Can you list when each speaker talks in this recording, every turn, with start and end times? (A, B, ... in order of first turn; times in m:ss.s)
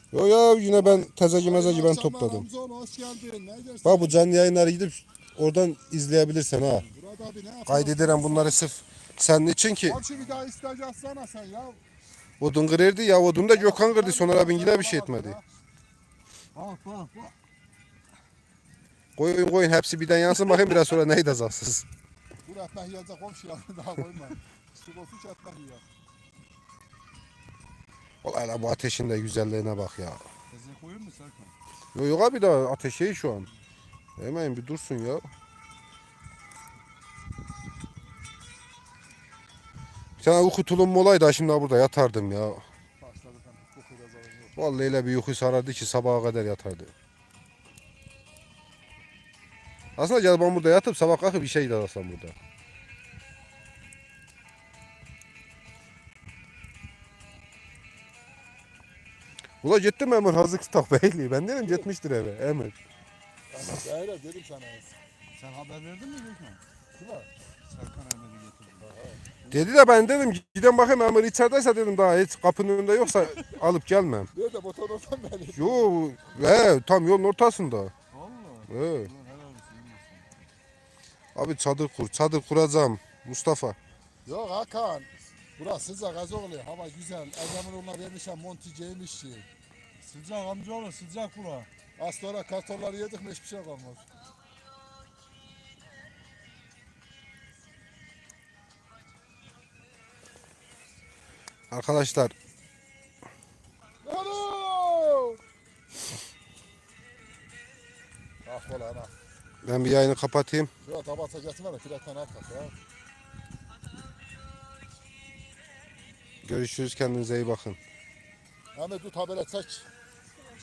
0:00.1-0:02.5 A
0:00.7-0:04.2 B
0:03.8-0:06.8 A
0:06.8-0:08.6 B
0:07.7-0:10.0 A
0:09.8-0:11.8 B
0:10.2-0:10.4 C
0:12.4-0:15.4 A
0:13.5-0:15.4 B
0:16.5-0:17.3 C
0:19.2-0:21.8 A
0:22.4-0:25.8 B
0:28.2-0:30.2 A
0:30.5-0:31.5 C
0:31.9-0:33.5 A
0:34.2-0:35.3 A
0:40.2-0:42.6 A
0:43.0-0:44.6 B
0:44.6-0:46.9 A
0:50.0-0:52.4 A
0:59.6-1:02.8 A
1:01.6-1:01.9 B
1:03.5-1:04.9 B
1:05.4-1:06.6 C
1:07.0-1:07.3 B
1:07.6-1:08.9 C
1:08.8-1:09.2 B
1:09.5-1:14.3 A
1:14.3-1:15.9 B
1:15.5-1:17.9 A
1:18.1-1:20.5 C
1:18.7-1:19.1 A
1:21.3-1:23.8 A
1:24.2-1:29.5 B
1:30.0-1:31.7 C
1:32.0-1:34.1 B
1:41.7-1:42.3 A
1:44.0-1:45.4 B
1:48.4-1:49.1 B
1:49.6-1:50.7 A
1:50.8-1:52.7 B
1:56.4-1:57.8 A
1:58.7-1:59.9 B